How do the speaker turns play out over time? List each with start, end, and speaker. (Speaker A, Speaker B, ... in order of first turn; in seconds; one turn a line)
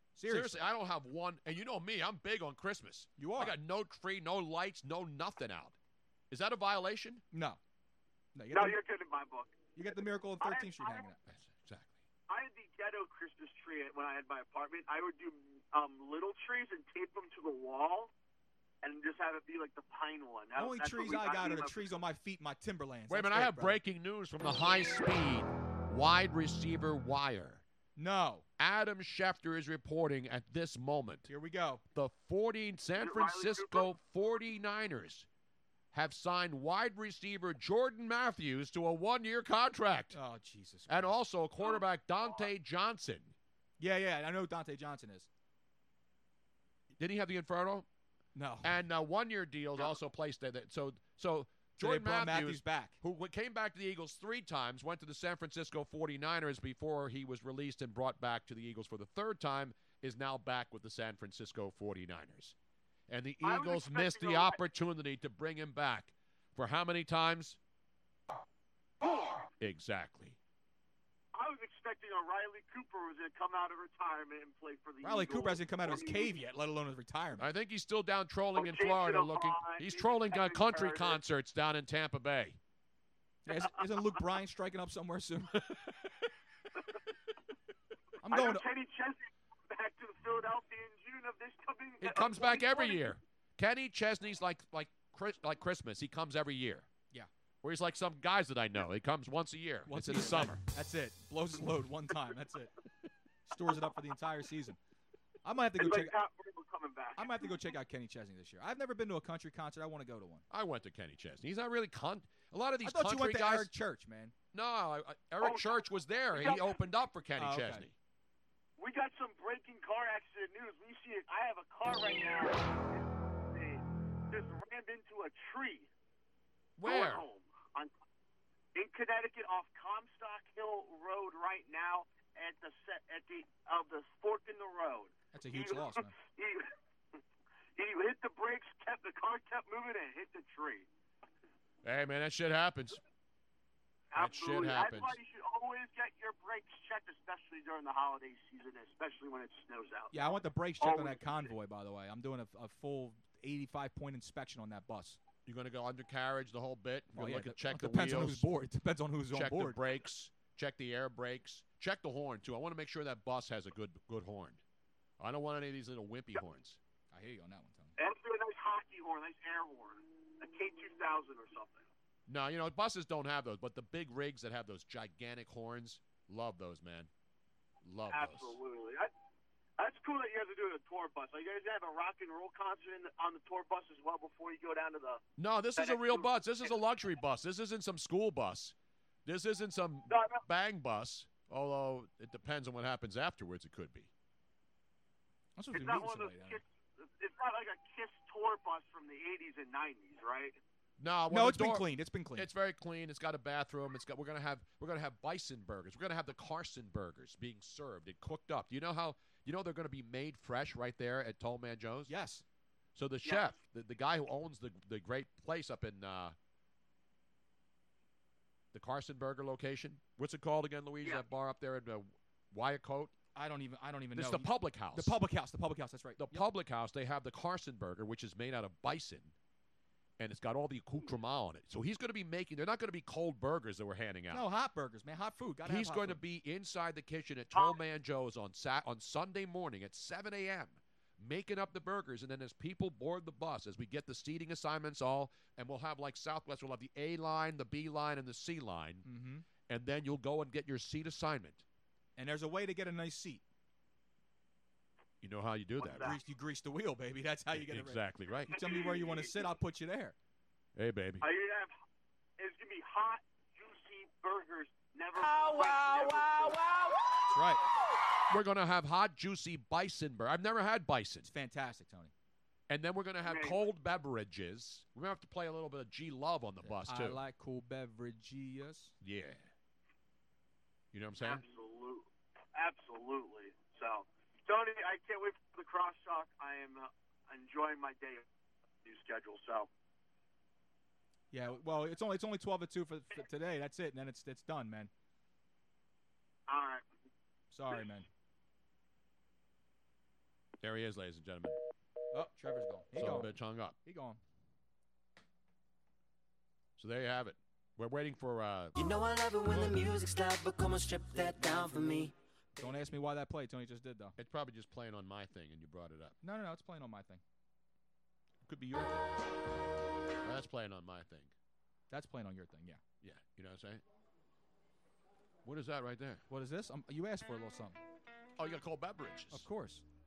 Speaker A: 0.1-0.7
Speaker B: 0.3-5.8
Speaker A: 3.2-3.6
Speaker B: 6.3-7.2
Speaker A: 7.3-7.6
Speaker A: 8.3-8.8
Speaker C: 8.5-9.6
Speaker A: 9.8-11.2
Speaker C: 10.4-11.1
Speaker B: 11.3-12.0
Speaker C: 12.3-18.1
Speaker C: 18.8-22.0
Speaker A: 20.6-23.8
Speaker B: 23.1-27.6
Speaker A: 28.0-28.4
Speaker B: 28.6-31.3
Speaker A: 31.3-31.8
Speaker B: 31.9-35.3
Speaker C: 33.0-33.9
Speaker B: 35.9-40.2
Speaker A: 40.1-41.1
Speaker B: 40.9-43.4
Speaker C: 41.6-42.5
Speaker A: 43.8-45.3
Speaker B: 47.0-47.9
Speaker A: 48.4-48.8
Speaker B: 48.6-62.5
Speaker A: 51.8-53.0
Speaker B: 63.1-67.6
Speaker C: 63.4-64.6
Speaker B: 69.6-70.4
Speaker C: 71.3-76.3
Speaker A: 75.0-77.5
Speaker B: 77.4-82.6
Speaker C: 78.6-81.2
Speaker A: 83.5-85.5
Speaker C: 83.5-84.0
Speaker B: 85.5-86.1
Speaker A: 88.2-88.7
Speaker C: 88.3-93.1
Speaker B: 92.0-96.9
Speaker B: 97.6-100.6
Speaker A: 99.9-102.7
Speaker A: 103.5-104.8
Speaker A: 105.5-106.2
Speaker C: 105.8-107.5
Speaker A: 107.2-110.4
Speaker B: 110.5-113.7
Speaker A: 112.8-114.3
Speaker B: 114.5-117.9
Speaker C: 115.4-116.8
Speaker A: 117.4-117.9
Speaker C: 118.8-125.9
Speaker B: 126.8-127.3
Speaker C: 126.8-127.9
Speaker C: 128.8-136.7
Speaker A: 135.3-136.1
Speaker C: 137.8-140.9
Speaker B: 141.8-143.0
Speaker C: 144.1-151.5
Speaker B: 144.1-145.2
Speaker A: 150.1-155.2
Speaker B: 155.5-158.5
Speaker A: 157.2-159.8
Speaker B: 159.3-164.6
Speaker B: 165.2-166.8
Speaker A: 167.1-167.9
Speaker C: 168.0-171.8
Speaker B: 172.3-177.1
Speaker B: 177.8-178.6
Speaker C: 178.1-179.1
Speaker C: 179.8-185.2
Speaker B: 185.4-194.1
Speaker C: 185.8-186.8
Speaker C: 190.1-190.4
Speaker A: 195.6-196.6
Speaker C: 195.7-200.6
Speaker B: 201.0-212.1
Speaker A: 201.3-202.5
Speaker A: 212.1-212.4
Speaker B: 212.9-216.4
Speaker C: 213.2-213.6
Speaker B: 218.7-223.1
Speaker A: 223.3-226.5
Speaker B: 224.2-225.2
Speaker B: 226.2-229.3
Speaker B: 230.2-234.5
Speaker A: 234.3-236.2
Speaker B: 235.6-249.1
Speaker C: 237.5-237.8
Speaker A: 249.1-249.5
Speaker B: 249.7-251.6
Speaker A: 252.2-253.4
Speaker B: 255.2-256.2
Speaker C: 255.8-256.1
Speaker A: 255.9-260.1
Speaker B: 257.5-258.9
Speaker C: 258.5-259.3
Speaker B: 260.8-261.3
Speaker C: 261.2-261.7
Speaker C: 262.4-266.6
Speaker A: 267.3-267.6
Speaker B: 268.3-271.3
Speaker A: 271.2-272.1
Speaker B: 272.7-277.2
Speaker C: 273.2-273.6
Speaker A: 276.6-278.9
Speaker B: 279.0-279.5
Speaker B: 280.9-281.4
Speaker C: 281.2-288.2
Speaker C: 288.8-289.7
Speaker A: 291.3-294.9
Speaker C: 296.5-296.9
Speaker A: 297.5-298.1
Speaker B: 300.6-301.6
Speaker A: 302.1-304.2
Speaker B: 302.9-303.8
Speaker B: 306.8-308.8
Speaker D: 308.8-312.1
Speaker A: 311.4-314.1
Speaker B: 314.2-316.2
Speaker A: 316.2-317.2
Speaker B: 318.4-319.1
Speaker B: 320.2-321.3
Speaker A: 321.9-322.8
Speaker B: 323.0-323.8
Speaker B: 325.4-326.2
Speaker A: 326.3-327.8
Speaker B: 328.4-329.5
Speaker A: 329.3-329.9